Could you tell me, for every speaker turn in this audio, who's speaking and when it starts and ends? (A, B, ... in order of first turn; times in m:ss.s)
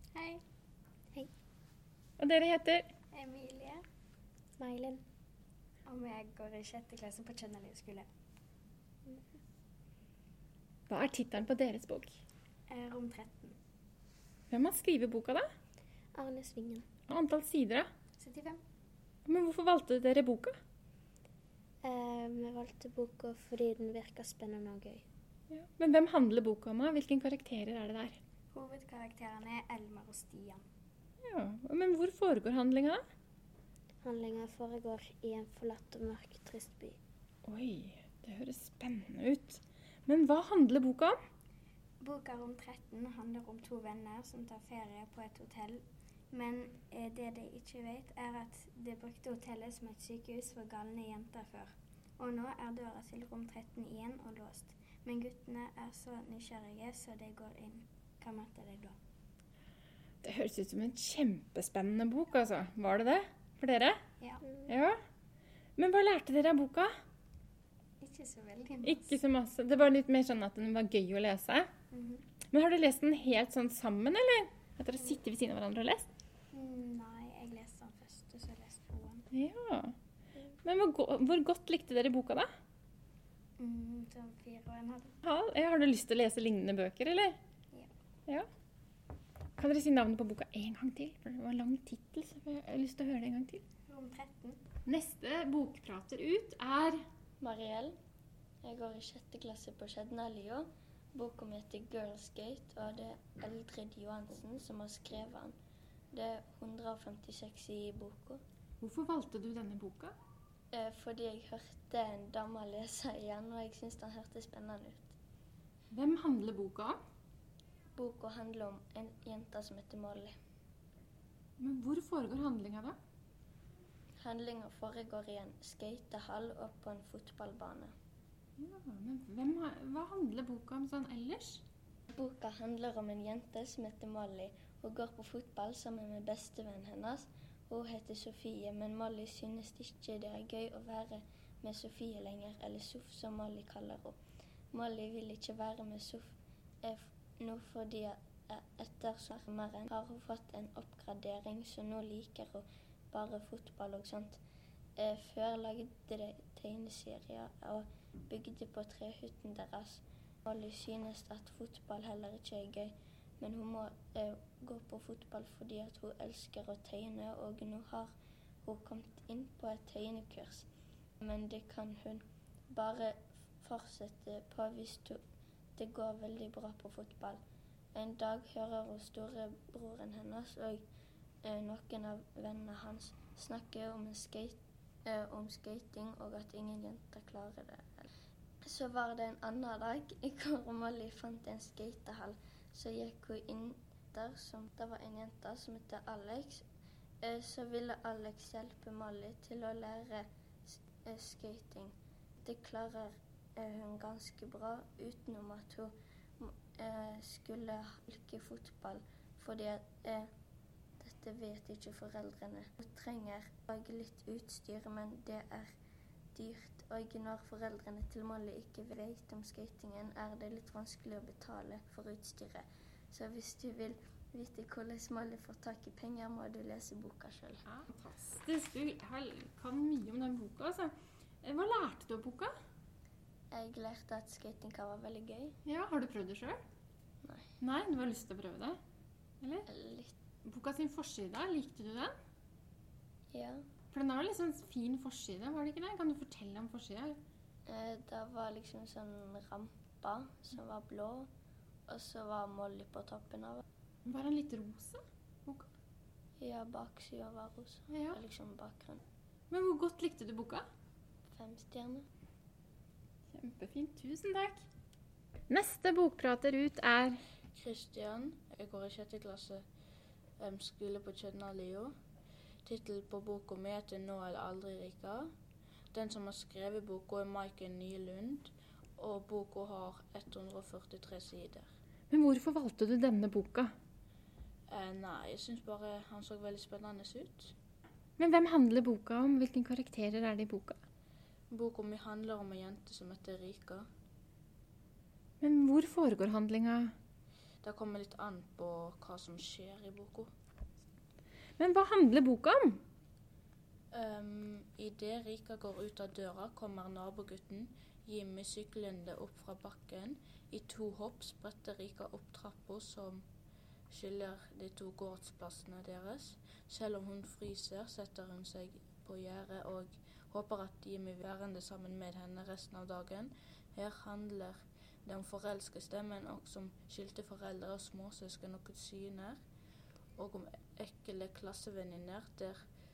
0:00.1-0:00.4 A
0:02.2-0:02.9 B
0:03.1-0:03.8 A
0:04.6-0:05.0 C
0:05.8-0:08.1 A
0:10.9-0:12.1 B
0:12.7-0:13.6 A
0:14.5-0:15.5 B
0:16.1-0:16.8 C
0:17.1-0:17.9 B
0:18.2-0:18.6 A
0:19.2-0:20.5 B
0:21.8-0:25.0 C
0:25.5-0:28.2 B
0:28.5-0:30.6 A
0:31.2-0:33.0 B
0:34.0-0:37.0 C
0:35.1-0:35.9 A
0:37.4-0:41.1 B
0:42.0-0:59.0 A
1:00.2-1:04.0 B
1:04.2-1:04.5 A
1:04.6-1:05.0 B
1:05.8-1:06.9 B
1:08.0-1:09.1 A
1:08.8-1:11.7 B
1:11.9-1:12.2 A
1:12.5-1:16.1 B
1:16.5-1:19.2 A
1:19.3-1:19.9 B
1:20.6-1:22.5 B
1:23.6-1:25.1 A
1:25.2-1:27.4 B
1:29.6-1:33.6 B
1:33.9-1:34.6 A
1:34.8-1:37.0 B
1:37.4-1:37.9 D
1:38.6-1:45.5 D
1:46.1-1:48.4 D
1:48.8-1:50.1 B
1:50.7-1:55.1 D
1:55.9-1:57.0 B
1:58.0-2:00.3 D
2:01.6-2:03.0 B
2:04.2-2:07.9 D
2:08.6-2:11.6 B
2:12.1-2:24.1 D
2:24.7-2:34.4 D
2:35.0-2:48.1 D
2:48.6-2:50.7 D
2:51.2-2:55.2 D
2:55.8-2:57.4 D
2:57.9-3:00.8 D
3:01.4-3:08.1 D
3:08.6-3:16.6 D
3:17.2-3:30.3 D
3:31.0-3:35.7 D
3:36.3-3:47.6 D
3:47.7-3:50.9 B
3:51.4-3:52.5 B
3:53.5-3:55.6 D
3:55.6-3:56.6 B
3:57.2-3:57.5 D
3:57.6-3:58.8 B
3:59.7-4:00.2 D
4:00.4-4:02.1 B
4:03.3-4:03.6 D
4:03.9-4:07.2 B
4:07.6-4:11.3 D
4:11.9-4:13.6 D
4:14.0-4:15.7 B
4:16.4-4:19.0 D
4:17.9-4:18.2 B
4:19.5-4:20.6 B
4:21.3-4:22.0 D
4:23.3-4:24.6 B
4:25.5-4:27.2 B
4:27.5-4:29.6 E
4:30.4-4:31.9 E
4:32.6-4:35.3 E
4:35.9-4:41.7 E
4:42.1-4:43.7 B
4:44.7-4:47.5 E
4:48.2-4:50.8 B
4:51.5-4:53.8 E
4:55.4-4:56.9 B
4:57.6-5:00.3 E
5:01.6-5:02.8 B
5:03.9-5:13.2 E
5:13.9-5:29.4 E
5:30.2-5:32.6 E